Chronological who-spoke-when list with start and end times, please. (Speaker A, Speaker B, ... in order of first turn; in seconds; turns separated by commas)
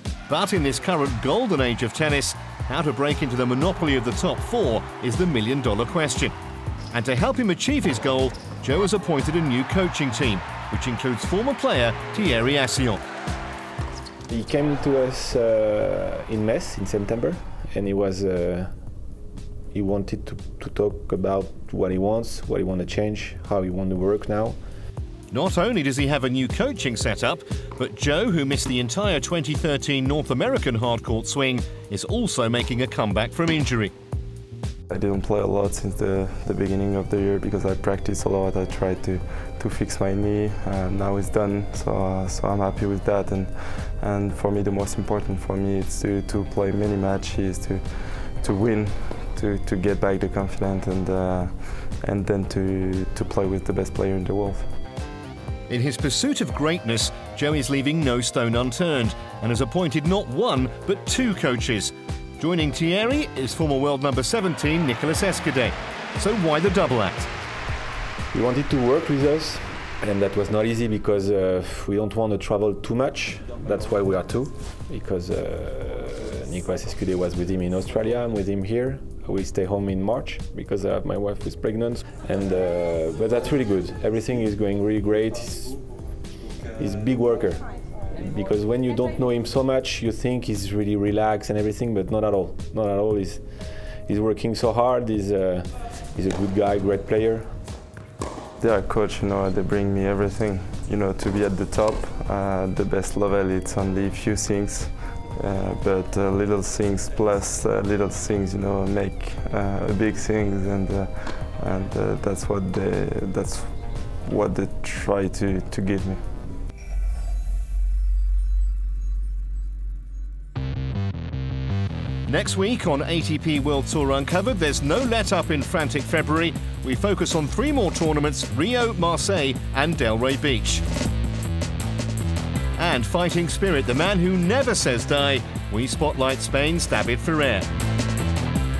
Speaker A: 0.3-6.3, Speaker A: 6.9-13.0, Speaker B: 14.3-18.7, Speaker B: 19.7-24.6, Speaker A: 25.3-33.9, Speaker C: 34.9-54.7, Speaker A: 55.7-67.3, Speaker B: 68.3-85.8, Speaker B: 86.8-93.5, Speaker B: 94.0-97.5, Speaker C: 98.6-116.2, Speaker A: 122.2-130.8, Speaker A: 132.8-137.7